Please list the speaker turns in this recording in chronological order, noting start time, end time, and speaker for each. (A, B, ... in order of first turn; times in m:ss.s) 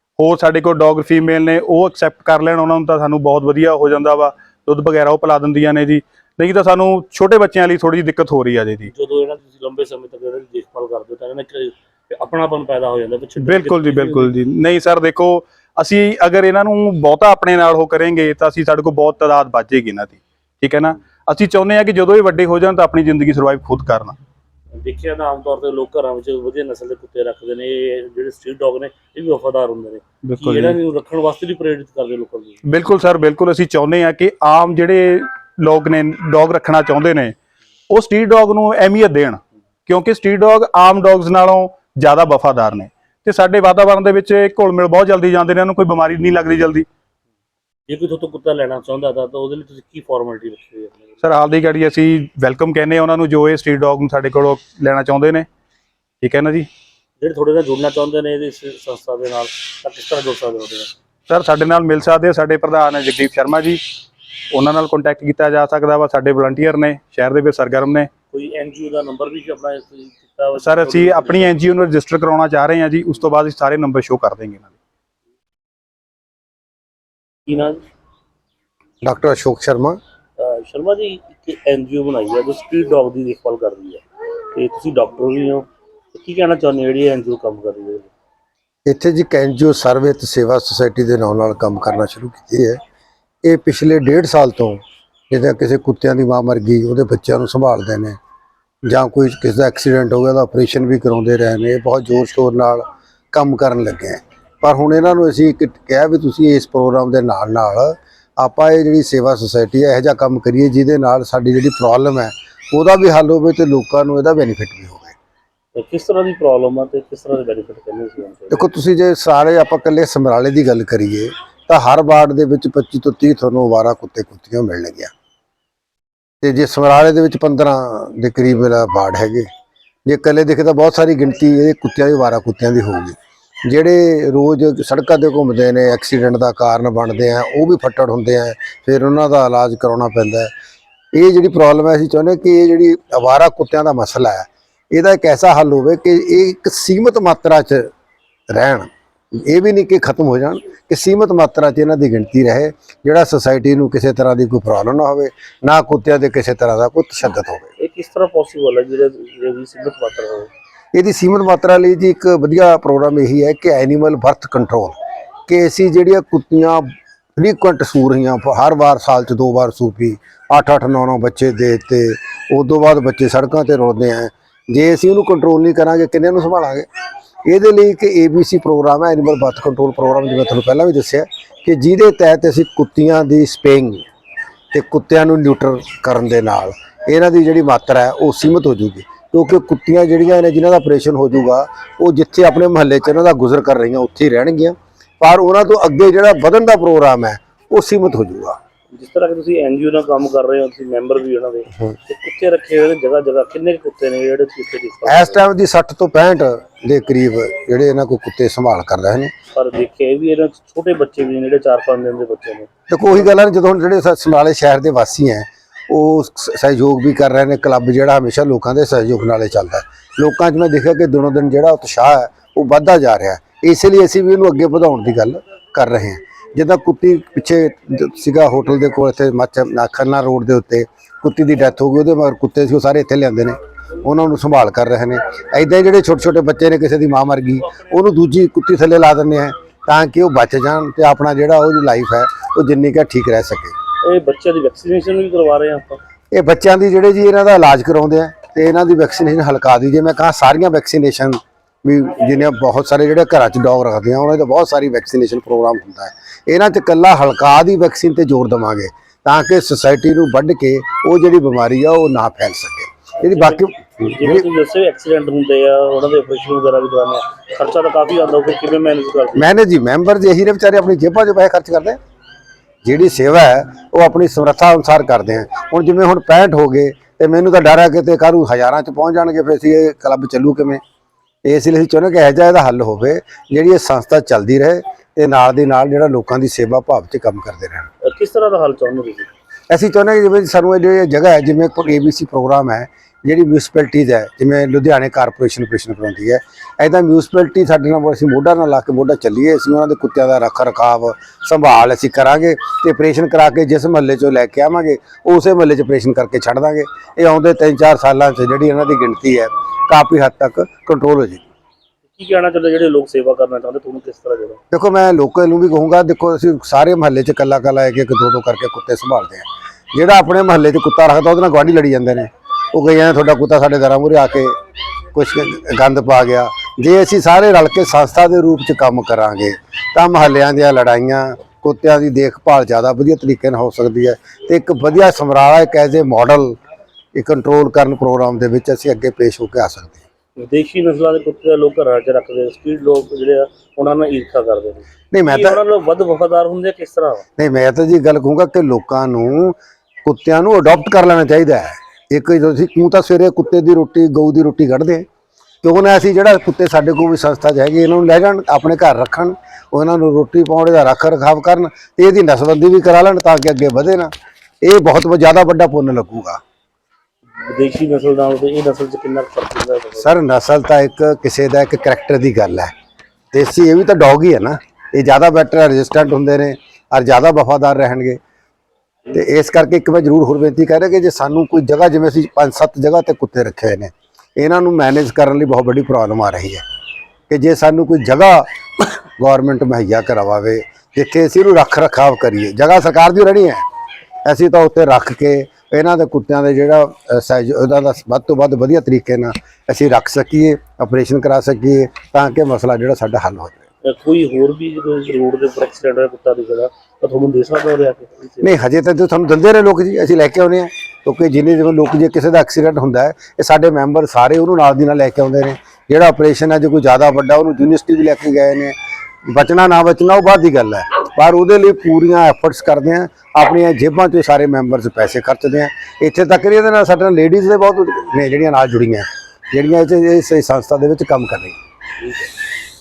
0:00.2-0:08.9 A
0:08.9-0:14.3 B
0:13.4-0:24.2 A
0:24.8-0:32.6 B
0:30.2-0:30.8 A
0:32.6-0:37.4 A
0:37.9-0:46.9 A
0:47.9-0:51.2 B
0:51.2-0:55.5 A
0:56.2-0:56.7 A
0:57.2-1:00.9 B
1:01.3-1:03.8 A
1:04.5-1:08.1 A
1:08.3-1:11.6 B
1:10.6-1:14.7 A
1:17.5-1:17.8 B
1:19.0-1:20.0 C
1:20.4-1:24.0 B
1:24.5-1:28.1 B
1:28.9-1:32.8 C
1:33.4-1:38.2 C
1:38.9-1:55.2 C
1:55.8-1:58.6 B
1:58.5-2:05.1 C
2:06.4-2:09.5 C
2:10.1-2:13.2 C
2:13.7-2:20.5 C
2:21.1-2:27.9 C
2:28.5-2:37.7 C
2:37.8-2:40.5 B
2:40.9-2:45.0 C
2:45.5-2:56.9 C
2:57.5-3:04.0 C
3:04.7-3:18.6 C
3:18.9-3:25.4 B
3:25.0-3:29.3 C
3:29.5-3:33.3 B
3:32.9-4:03.7 C
4:04.0-4:06.0 B
4:06.3-4:24.4 C
4:23.2-4:29.5 B
4:29.4-4:32.0 C
4:32.8-4:40.8 C
4:41.4-4:47.9 C
4:48.0-4:49.3 B
4:49.7-5:11.4 C
5:12.2-5:14.6 B
5:14.7-5:24.6 C
5:25.1-5:36.6 C
5:37.2-5:40.0 C
5:40.4-5:47.2 B
5:45.1-5:45.6 C
5:47.4-5:55.1 C
5:55.6-6:04.1 C
6:04.6-6:06.4 C
6:07.4-6:10.2 B
6:10.0-6:12.7 C
6:13.3-6:18.2 C
6:19.1-6:26.6 C
6:27.3-6:33.6 C
6:34.2-6:43.6 C
6:43.8-6:48.6 B
6:48.4-6:58.8 C
6:59.3-7:11.6 C